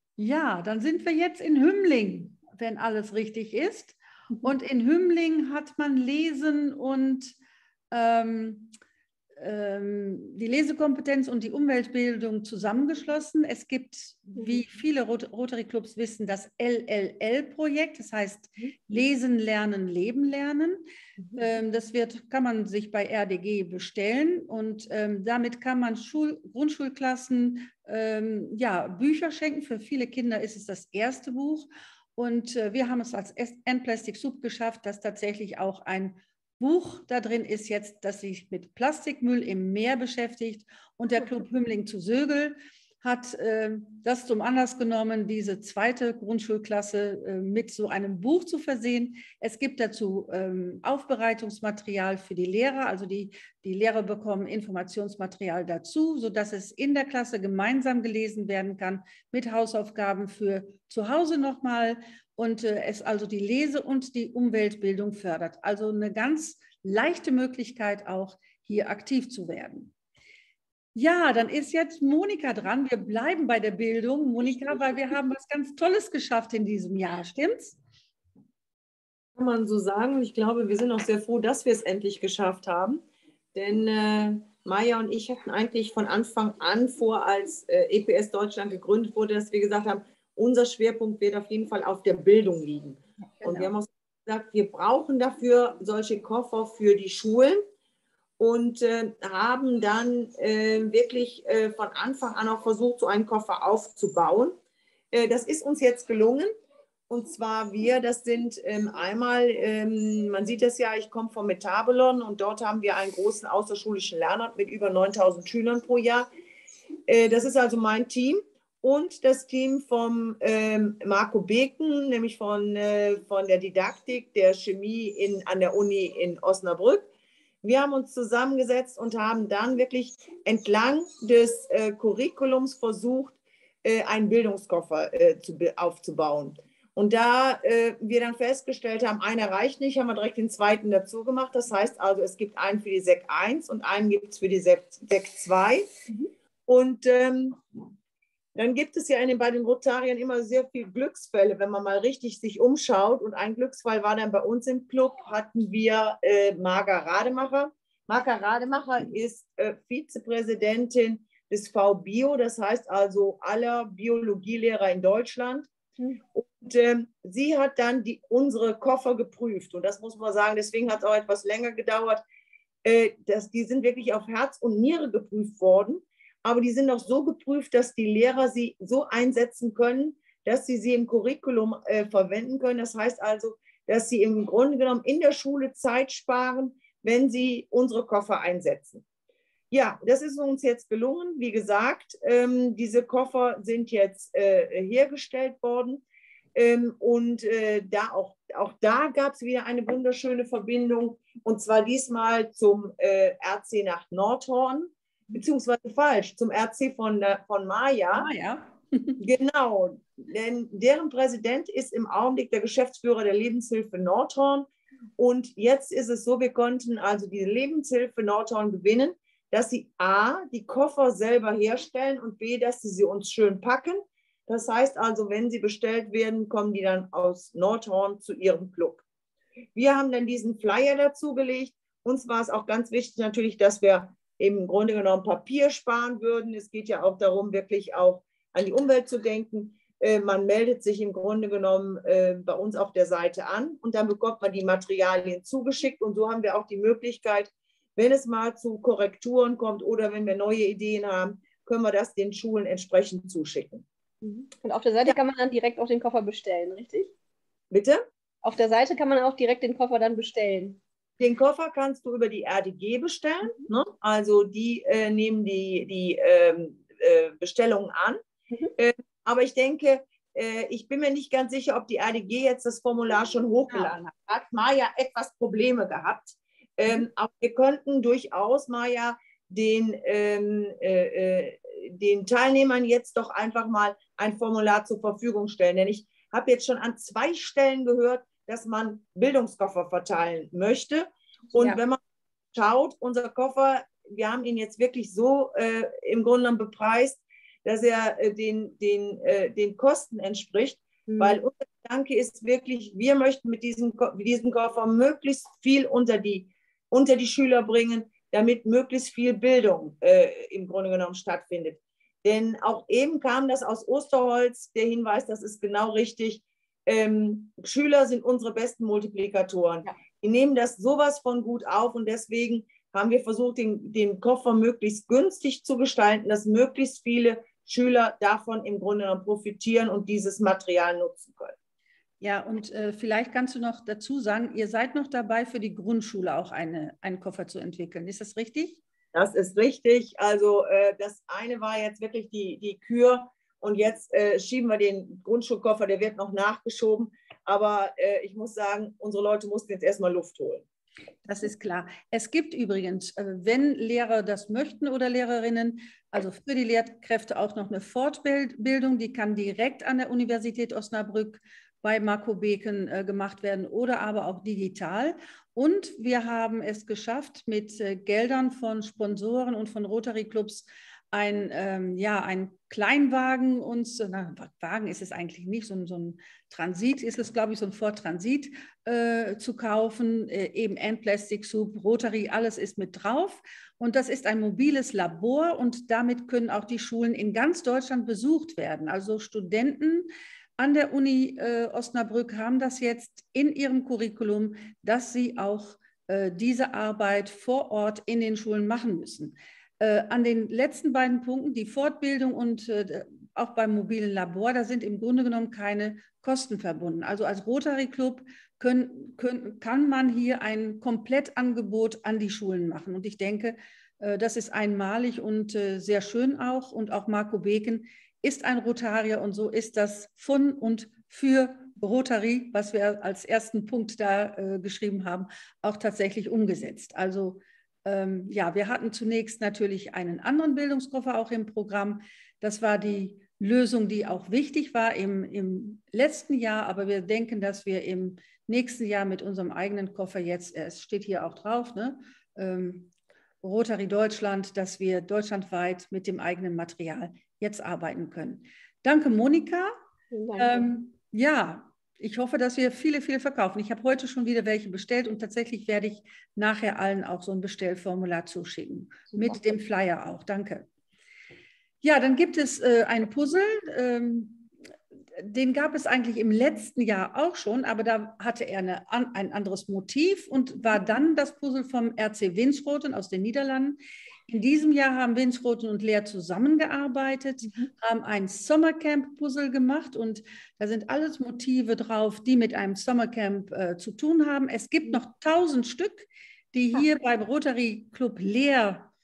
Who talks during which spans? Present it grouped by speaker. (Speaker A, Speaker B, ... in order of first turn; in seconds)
Speaker A: 0.2-7.3, 7.9-8.7, 9.4-20.8, 21.4-69.9, 71.0-77.8, 93.4-93.7, 208.1-209.2, 332.2-338.8, 351.2-442.9, 443.4-449.8, 450.4-460.7, 461.8-464.5, 465.2-488.9
Speaker B: 79.4-83.0, 83.5-97.6, 98.4-104.6, 105.1-106.5, 107.1-116.3, 117.1-127.1, 127.6-145.9, 146.7-147.6, 148.6-165.7, 166.3-172.2, 172.8-189.0, 189.7-196.0, 196.6-208.3, 209.2-229.0, 229.8-253.8, 257.7-258.0, 261.2-268.2, 268.8-292.0, 292.5-331.6, 339.1-350.6
Speaker C: 254.2-257.1, 258.4-260.8, 301.1-301.4, 450.1-450.6, 459.1-459.4